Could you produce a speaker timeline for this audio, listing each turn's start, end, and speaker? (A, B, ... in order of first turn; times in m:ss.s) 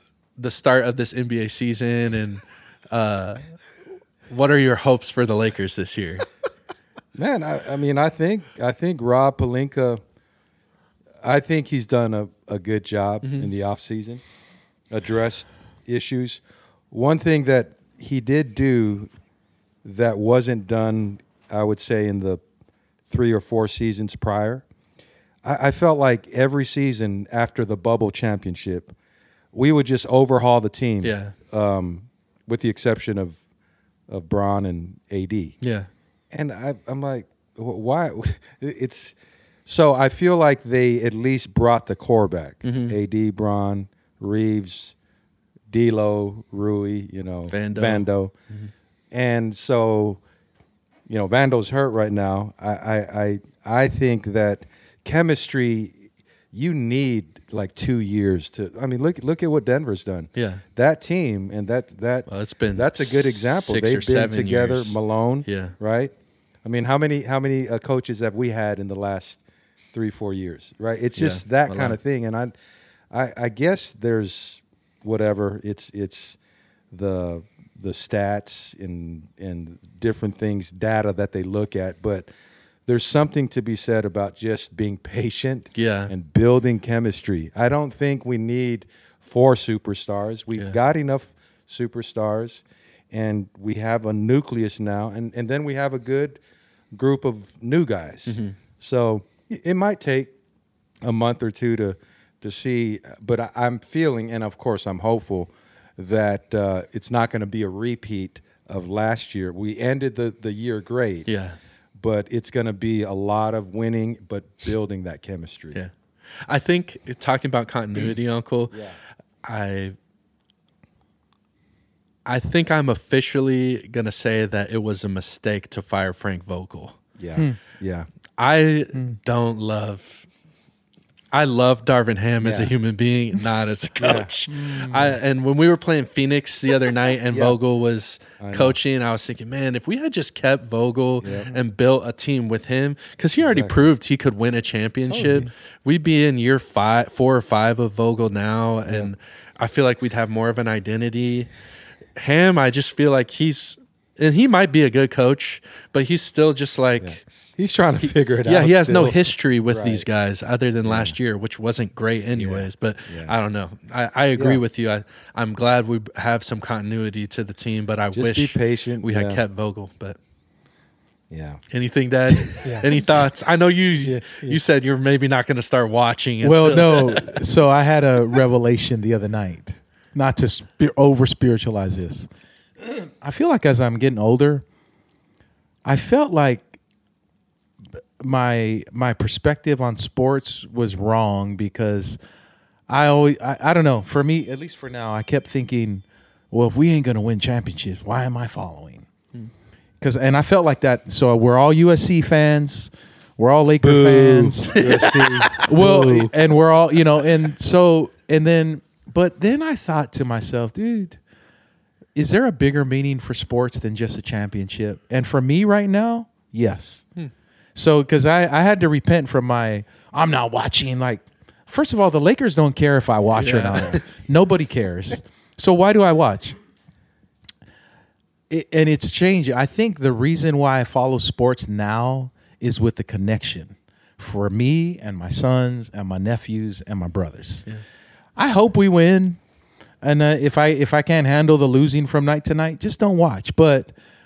0:00.4-0:03.6 A
0:04.3-0:06.2 A
0:07.1-0:10.0 B
0:11.2-0:14.2 B
0:13.2-0:13.5 A
0:14.9-0:16.4 B
0:16.9-0:19.1 B
0:19.8-0:22.4 B
0:23.1-0:24.6 B
0:25.4-0:28.9 B
0:29.5-0:33.4 B
0:31.0-0:31.3 A
0:34.1-0:35.6 B
0:35.6-0:35.9 A
0:36.3-0:39.1 B
0:39.6-0:44.9 B
0:42.6-0:43.0 A
0:45.7-0:48.3 B
0:47.5-0:48.7 A
0:49.1-0:50.2 B
0:51.1-1:09.4 B
1:00.3-1:00.6 A
1:02.3-1:05.7 A
1:09.9-1:12.5 B
1:11.2-1:12.0 A
1:13.1-1:16.4 B
1:16.9-1:22.3 B
1:22.9-1:36.4 B
1:25.7-1:26.1 A
1:36.9-1:40.3 B
1:38.3-1:38.6 A
1:41.0-1:51.3 B
1:51.2-1:51.6 A
1:52.0-1:55.8 B
1:56.4-1:58.8 A
1:58.7-1:59.0 B
1:59.4-2:00.0 A
2:02.2-2:07.0 A
2:07.2-2:08.1 B
2:08.4-2:10.3 A
2:11.3-2:31.5 A
2:12.4-2:12.7 B
2:14.0-2:14.3 B
2:14.5-2:15.1 C
2:17.3-2:17.6 B
2:18.4-2:18.8 B
2:21.2-2:21.6 B
2:23.4-2:23.8 B
2:25.1-2:25.4 B
2:32.2-2:37.2 A
2:37.0-2:40.0 B
2:38.4-2:50.2 A
2:40.8-2:41.2 B
2:42.3-2:43.3 B
2:48.1-2:49.4 B
2:51.3-2:51.6 B
2:51.7-2:57.4 A
2:52.6-2:53.1 B
2:54.0-2:54.6 B
2:56.4-3:02.3 C
3:02.8-3:04.6 C
3:05.8-3:06.8 C
3:07.9-3:12.2 C
3:12.9-3:19.1 C
3:20.0-3:24.8 C
3:23.8-3:26.3 B
3:24.7-3:25.7 A
3:25.6-3:31.2 C
3:32.1-3:37.1 C
3:37.7-3:46.5 C
3:43.4-3:44.0 A
3:48.5-3:57.6 C
3:58.4-3:59.4 C
4:00.0-4:03.9 C